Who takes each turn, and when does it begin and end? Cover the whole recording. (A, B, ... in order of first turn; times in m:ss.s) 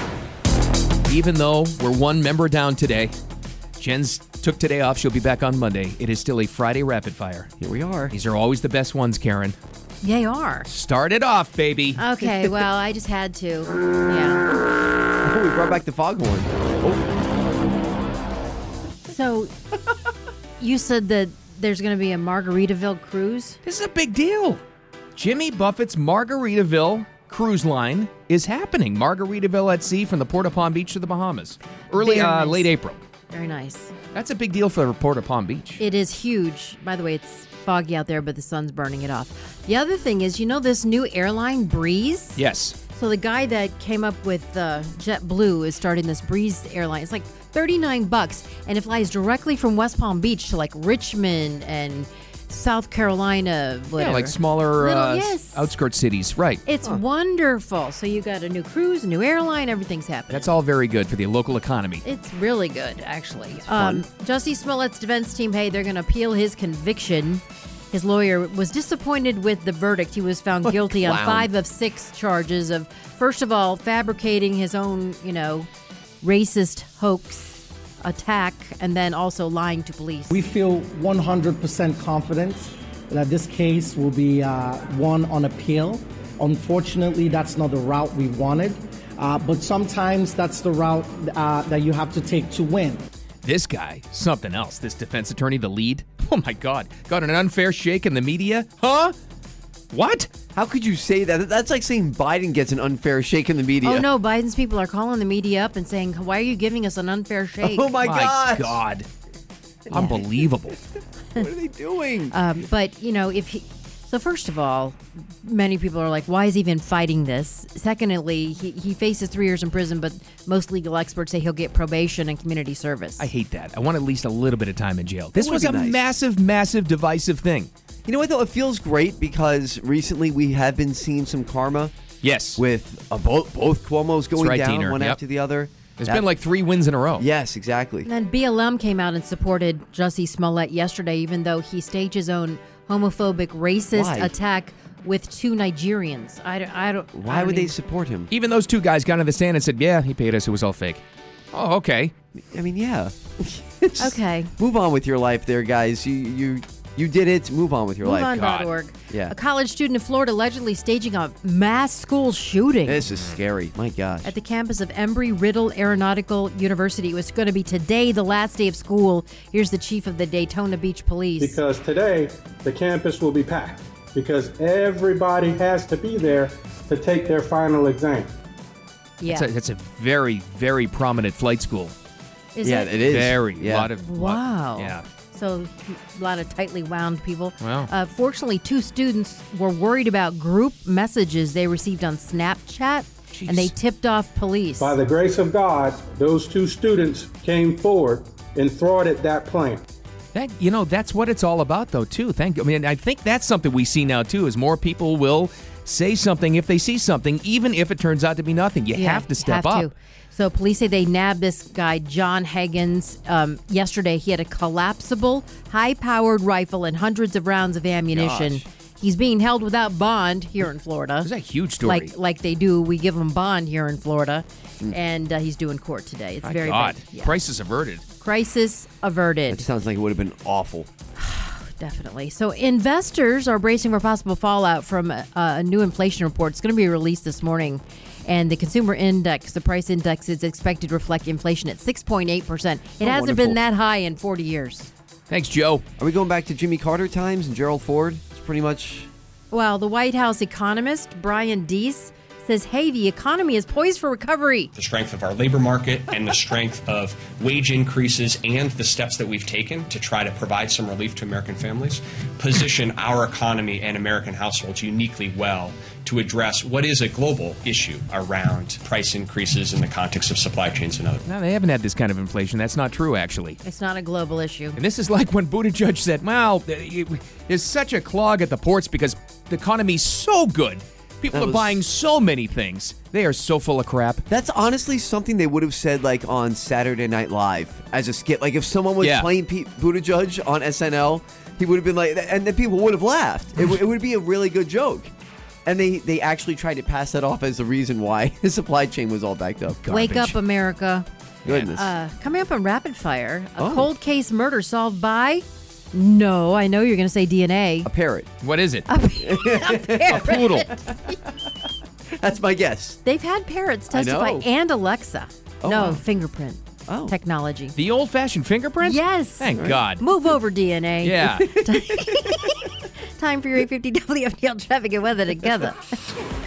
0:01.1-0:03.2 A
0:03.8-0:07.5 A
0:07.6-0:08.1 B
0:08.1-0:09.6 A
0:10.0-0:10.7 C
0:10.7-0:12.0 A
0:12.0-0:14.4 C
0:15.2-0:17.1 B
0:19.1-0:19.5 C
0:20.6-0:23.6 C
0:23.6-0:24.6 A
0:25.2-0:33.0 A
0:32.0-0:32.7 C
0:33.3-0:33.9 C
0:34.1-0:35.8 A
0:35.8-0:42.4 C
0:42.4-0:42.8 A
0:42.9-0:55.7 C
0:54.0-0:56.6 A
0:56.7-1:00.5 C
1:00.3-1:02.0 A
1:02.0-1:15.7 C
1:03.7-1:04.0 B
1:10.6-1:11.5 B
1:16.2-1:20.4 C
1:20.3-1:33.0 D
1:33.4-1:39.1 A
1:39.9-1:40.3 A
1:40.5-1:44.1 B
1:43.8-1:48.0 C
1:47.6-1:48.8 B
1:48.0-1:49.1 A
1:49.9-1:50.2 C
1:49.9-1:50.8 A
1:51.4-1:52.4 B
1:52.3-2:03.3 C
2:03.2-2:07.7 A
2:05.4-2:06.0 B
2:08.1-2:11.9 B
2:12.2-2:12.6 A
2:12.6-2:16.3 B
2:14.4-2:15.2 A
2:16.0-2:17.3 A
2:17.2-2:18.1 B
2:18.0-2:27.7 C
2:23.9-2:24.3 B
2:27.2-2:28.3 B
2:28.3-2:31.0 A
2:31.5-2:32.1 A
2:32.4-2:38.4 B
2:34.0-2:34.5 C
2:38.0-2:43.0 C
2:38.3-2:38.7 A
2:39.1-2:39.4 B
2:42.9-2:44.3 B
2:44.2-2:51.6 C
2:51.4-2:58.3 E
2:59.2-2:59.5 C
2:59.3-3:01.9 A
3:02.6-3:02.9 C
3:02.6-3:03.9 B
3:03.1-3:05.1 A
3:04.0-3:15.0 C
3:07.6-3:07.9 A
3:13.3-3:13.7 A
3:14.8-3:19.8 E
3:20.3-3:29.9 A
3:28.9-3:41.3 C
3:38.1-3:38.6 B
3:41.2-3:42.1 A
3:41.8-3:47.4 C
3:46.4-3:48.0 A
3:48.2-3:49.7 C
3:49.5-3:50.9 B
3:51.2-4:04.9 C
4:03.0-4:03.6 B
4:05.3-4:05.8 A
4:06.0-4:09.1 B
4:09.5-4:14.7 C
4:14.8-4:31.3 F
4:31.2-4:33.6 A
4:33.6-4:34.8 C
4:34.8-4:44.2 A
4:41.3-4:41.8 B
4:44.3-4:55.1 B
4:49.0-4:49.3 A
4:55.7-4:59.8 B
4:59.8-5:00.4 A
4:59.9-5:01.1 C
5:01.4-5:01.9 B
5:01.7-5:07.9 C
5:03.6-5:03.9 B
5:07.8-5:08.3 B
5:08.4-5:08.9 A
5:08.9-5:10.9 C
5:09.2-5:11.2 B
5:10.1-5:10.7 A
5:12.2-5:13.0 B
5:13.0-5:17.8 C
5:13.9-5:14.5 B
5:15.6-5:16.0 B
5:16.9-5:17.2 B
5:17.8-5:20.0 A
5:18.8-5:26.2 C
5:19.6-5:19.8 B
5:21.0-5:21.6 A
5:21.6-5:21.9 B